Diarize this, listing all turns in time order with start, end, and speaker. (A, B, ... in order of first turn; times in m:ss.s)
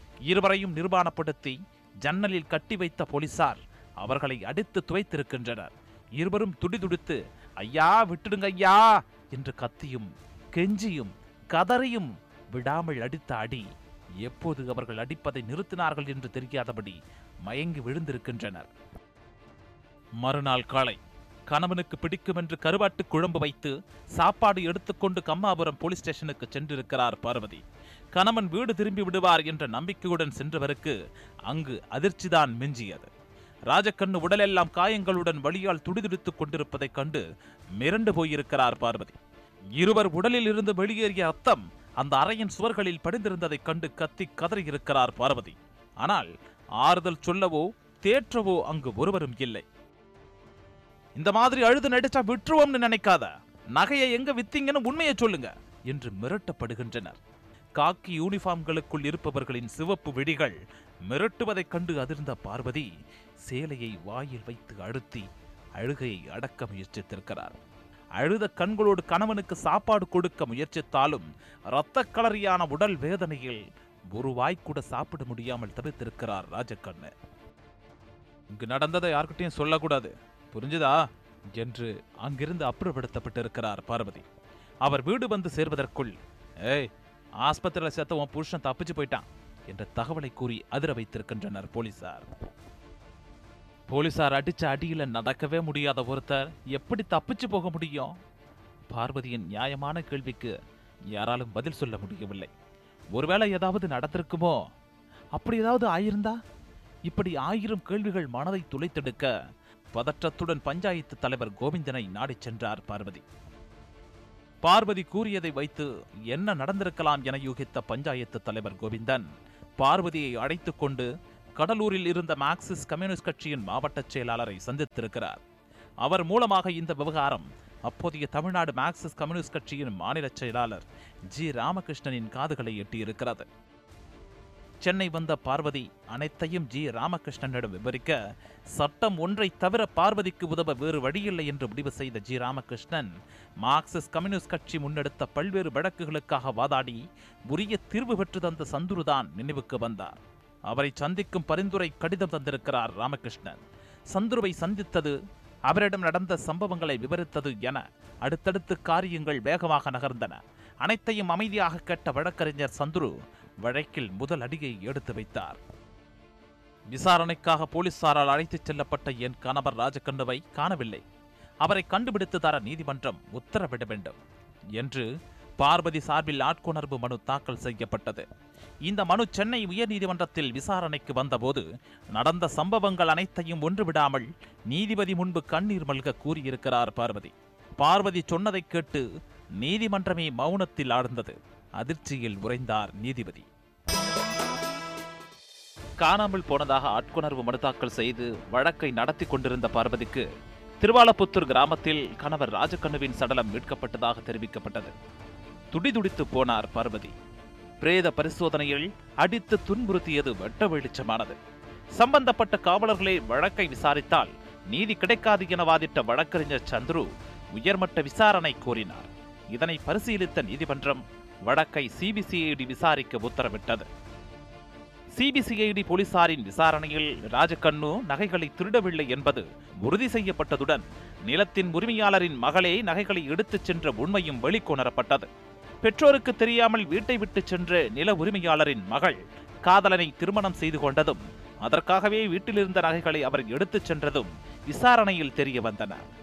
0:00.3-0:13.6 A
0:14.2-0:18.7 A
0:20.2-0:21.0 A
0:21.5-0:27.6 A
0:28.1-0:31.0 A
0:31.5-0:33.1 A
0:33.7-0:37.2 A
0:37.8-0:39.2 A
0:39.8-0:46.3 A
0:46.8-0:49.6 A
0:51.2-0:57.2 A
0:57.8-1:00.6 A
1:01.1-1:02.9 A
1:03.4-1:07.5 A
1:08.2-1:13.6 A
1:14.1-1:17.1 A
1:18.5-1:24.2 A
1:24.8-1:26.9 A
1:27.4-1:32.3 A
1:33.9-1:38.1 A
1:38.9-1:40.5 A
1:41.1-1:42.5 A
1:43.1-1:44.6 A
1:45.4-1:46.4 A
1:47.1-1:49.3 A
1:49.9-1:53.2 A
1:54.6-1:59.2 A
1:59.8-2:05.4 A
2:06.0-2:13.4 A
2:14.8-2:18.2 A
2:18.7-2:23.1 A
2:23.6-2:33.6 A
2:34.1-2:35.2 A
2:35.7-2:45.6 A
2:46.9-2:51.0 A
2:51.6-2:54.2 A
2:54.8-2:55.1 A
2:55.6-2:58.2 A
2:58.8-3:09.0 A
3:09.6-3:13.5 A
3:16.0-3:20.2 A
3:20.8-3:24.9 A
3:25.7-3:27.1 A
3:27.8-3:31.4 A
3:32.0-3:43.8 A
3:45.1-3:55.3 A
3:55.8-4:06.0 A